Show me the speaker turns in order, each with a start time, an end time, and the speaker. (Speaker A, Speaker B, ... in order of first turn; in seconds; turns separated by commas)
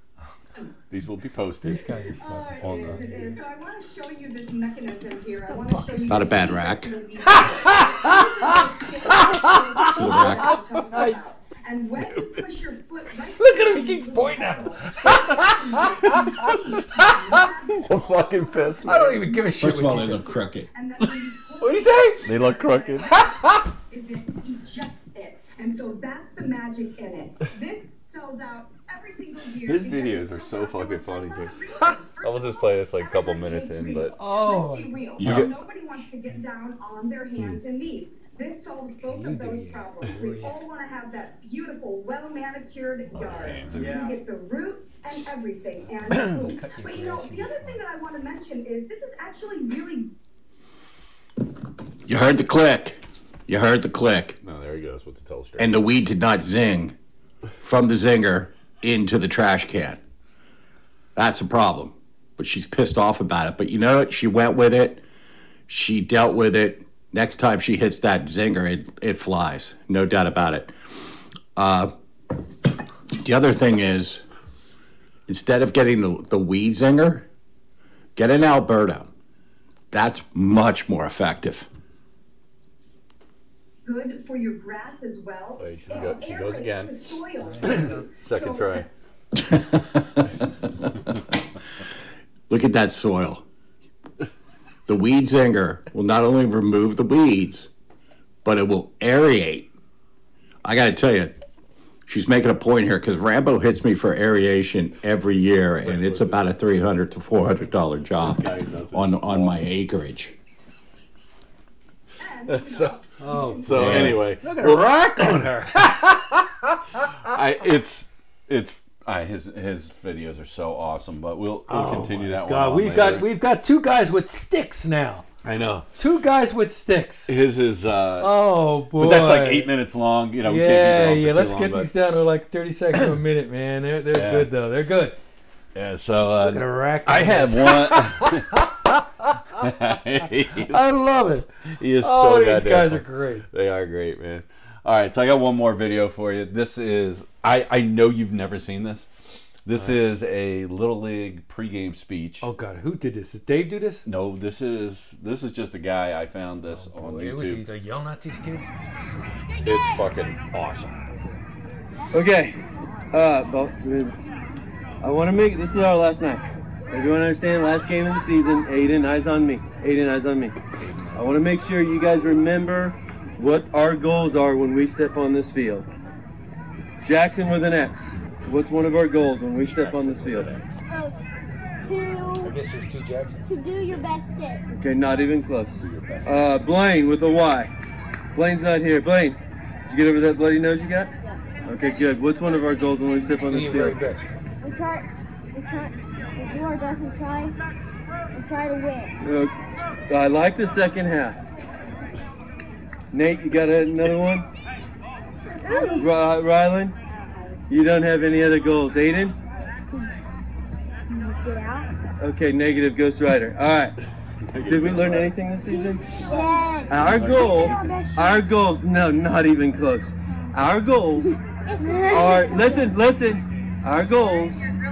Speaker A: 0.9-3.2, Speaker B: 1.6-3.4, Speaker C: 2.1-50.1, Speaker B: 5.5-6.2, Speaker D: 6.1-7.0, Speaker B: 7.2-11.3, Speaker D: 9.9-10.6, Speaker B: 13.3-17.8, Speaker A: 17.8-19.2, Speaker B: 18.8-20.3, Speaker D: 19.6-20.7, Speaker B: 21.6-22.4, Speaker A: 22.2-23.1, Speaker B: 23.0-23.7, Speaker A: 29.6-31.5, Speaker A: 32.2-34.2, Speaker B: 34.1-35.3, Speaker A: 35.2-35.5, Speaker B: 39.0-40.7, Speaker A: 43.1-44.1, Speaker B: 43.8-44.0, Speaker B: 46.1-47.9, Speaker D: 52.0-54.4, Speaker A: 54.4-55.9, Speaker D: 55.6-57.0, Speaker D: 57.6-60.0, Speaker D: 61.2-65.0, Speaker D: 65.7-70.8, Speaker D: 71.5-71.9, Speaker D: 73.1-74.2, Speaker D: 75.3-77.3, Speaker D: 78.2-79.1, Speaker D: 79.9-81.7, Speaker C: 83.8-88.9, Speaker A: 85.6-87.0, Speaker B: 87.4-88.1, Speaker A: 87.7-88.9, Speaker D: 92.5-93.4, Speaker D: 94.9-97.7, Speaker D: 98.4-99.7, Speaker D: 100.6-101.4, Speaker D: 102.1-110.3, Speaker A: 105.8-106.6, Speaker A: 108.2-109.7, Speaker C: 112.2-113.9, Speaker A: 112.5-113.0, Speaker B: 113.2-117.1, Speaker A: 113.6-115.5, Speaker D: 113.8-114.2, Speaker A: 117.2-123.3, Speaker B: 121.7-125.3, Speaker A: 125.4-125.9, Speaker B: 126.0-127.3, Speaker A: 127.3-128.4, Speaker B: 128.2-129.7, Speaker A: 128.9-131.9, Speaker B: 130.4-135.2, Speaker A: 134.1-134.5, Speaker A: 135.8-138.6, Speaker B: 136.4-139.7, Speaker A: 139.6-140.8, Speaker B: 140.5-143.5, Speaker A: 141.7-149.1, Speaker A: 149.7-152.5, Speaker B: 149.7-150.0, Speaker B: 152.4-154.1, Speaker A: 154.1-157.7, Speaker B: 156.6-158.7, Speaker A: 159.6-161.0, Speaker E: 162.1-162.6, Speaker E: 163.1-164.2, Speaker E: 165.0-170.6, Speaker A: 170.8-171.4, Speaker E: 171.1-175.9, Speaker E: 177.0-180.5, Speaker A: 179.6-180.7, Speaker F: 180.9-181.2, Speaker F: 181.8-182.6, Speaker B: 182.4-183.5, Speaker F: 183.4-184.6, Speaker E: 184.7-187.7, Speaker A: 185.8-186.7, Speaker E: 188.3-191.1, Speaker E: 191.7-194.0, Speaker B: 193.5-194.4, Speaker F: 194.6-197.6, Speaker F: 198.3-199.2, Speaker E: 199.2-199.5, Speaker E: 200.1-201.4, Speaker E: 203.1-204.5, Speaker F: 205.6-206.1, Speaker E: 205.9-206.9, Speaker E: 207.7-209.3, Speaker F: 211.1-211.9, Speaker E: 212.2-213.9, Speaker A: 214.5-215.3, Speaker E: 214.7-216.0, Speaker F: 215.7-218.4, Speaker E: 216.9-221.4, Speaker A: 217.0-217.8, Speaker F: 221.7-222.9, Speaker E: 222.1-224.7